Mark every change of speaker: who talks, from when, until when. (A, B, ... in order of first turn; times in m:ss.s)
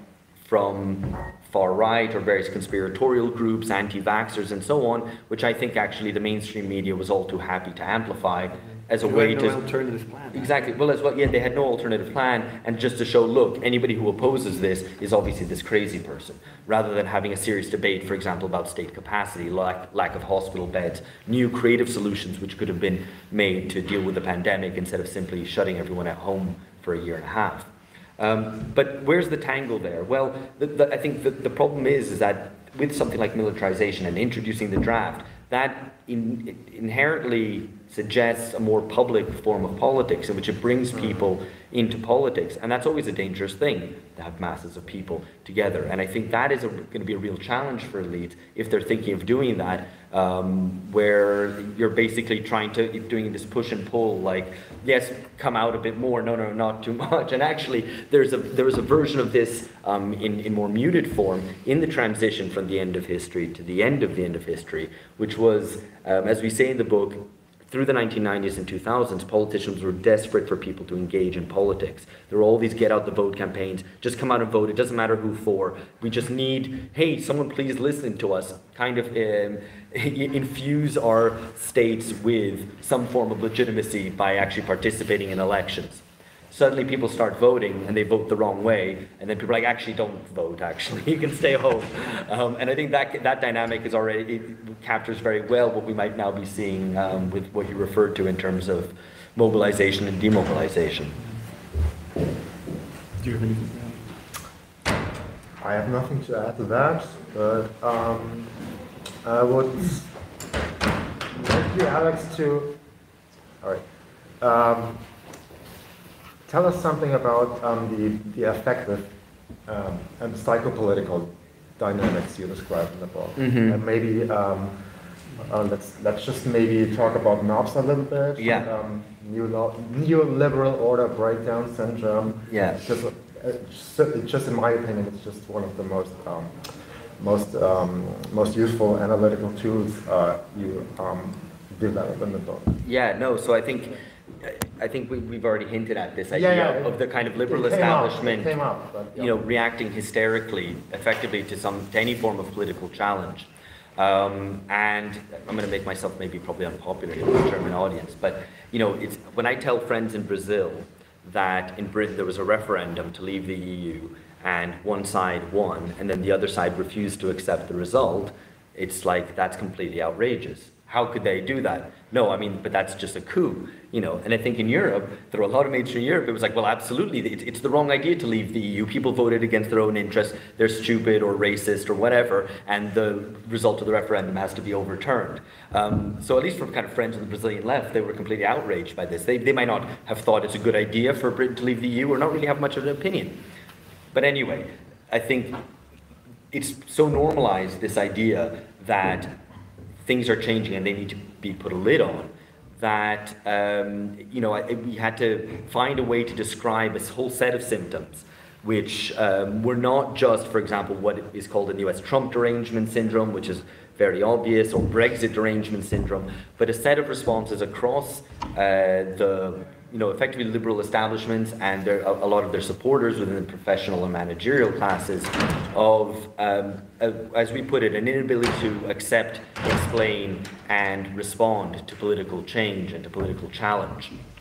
0:00.4-0:09.6 A
0:09.0-0:10.5 B
0:10.3-1:41.2 A
1:43.2-1:44.0 B
1:45.6-1:48.6 C
1:49.2-1:50.1 C
1:51.3-1:52.8 C
1:54.4-1:55.0 C
1:56.5-1:59.1 C
1:59.7-2:04.8 C
2:03.4-2:03.8 A
2:05.4-2:22.8 C
2:08.4-2:08.7 A
2:12.5-2:12.8 A
2:22.8-2:28.6 A
2:26.3-2:29.4 C
2:29.1-3:13.4 A
3:14.1-3:15.6 A
3:16.5-3:19.4 A
3:20.0-3:54.1 A